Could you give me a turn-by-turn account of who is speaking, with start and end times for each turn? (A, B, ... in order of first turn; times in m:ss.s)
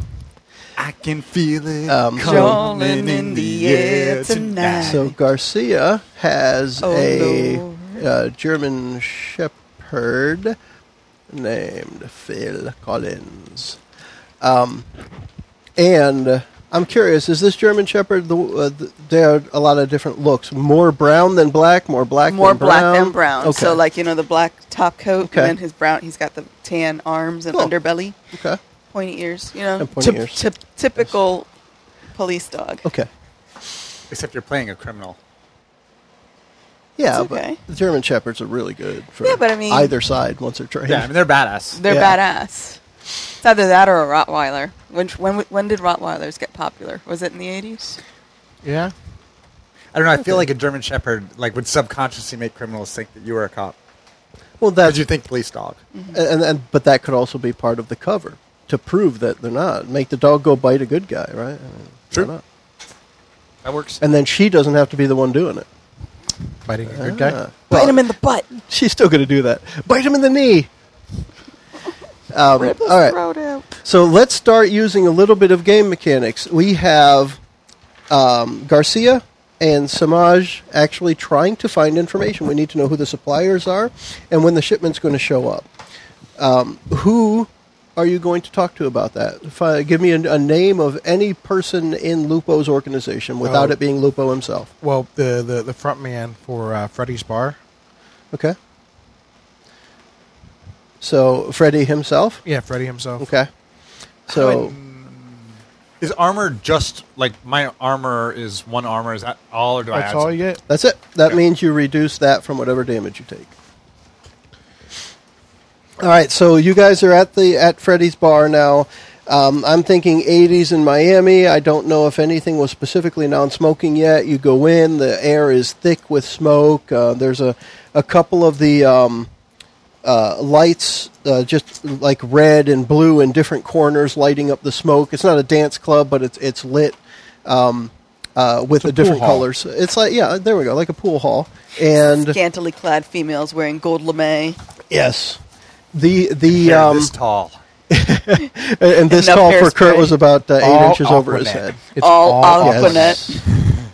0:00.8-0:05.0 A
0:01.9-0:02.6 B
0:02.2-0:05.1 C
0:04.8-0:10.6 B
0:06.8-0:08.0 C
0:11.3-0:13.8 B
0:14.4-0:14.9 B
0:15.8-0:23.8 B
0:22.3-0:28.2 C
0:25.2-0:25.5 B
0:28.3-0:28.6 B
0:28.9-0:31.5 C
0:29.8-0:30.4 B
0:32.1-0:32.8 C
0:34.1-0:35.2 A
0:37.0-0:41.1 B
0:37.1-0:37.6 C
0:39.2-0:39.9 C
0:40.8-0:41.8 A
0:41.7-0:42.8 C
0:41.9-0:42.2 B
0:43.4-0:48.0 C
0:48.6-0:48.9 D
0:49.9-0:53.8 A
0:50.2-0:50.5 B
0:54.6-0:55.0 B
0:54.8-0:55.8 A
0:56.1-1:02.4 B
1:03.6-1:04.0 A
1:04.0-1:05.6 B
1:06.6-1:07.4 D
1:06.9-1:10.7 B
1:07.7-1:08.5 C
1:12.3-1:13.2 B
1:12.6-1:13.7 C
1:13.8-1:17.4 B
1:18.1-1:25.7 B
1:26.4-1:34.7 B
1:33.4-1:33.8 D
1:34.8-1:37.6 D
1:41.0-1:42.4 B
1:42.4-1:43.2 D
1:43.2-1:43.5 B
1:44.3-1:44.7 B
1:44.3-1:45.4 A
1:46.0-1:50.3 A
1:49.9-1:50.6 D
1:50.7-1:53.5 B
1:56.0-2:09.3 B
2:10.0-2:22.4 B
2:18.8-2:19.5 D
2:22.3-2:24.6 C
2:24.9-2:25.4 B
2:25.9-2:27.1 B
2:26.5-2:27.6 A
2:27.9-2:31.8 B
2:29.1-2:30.1 C
2:30.6-2:33.2 D
2:32.0-2:33.4 C
2:32.5-2:33.4 B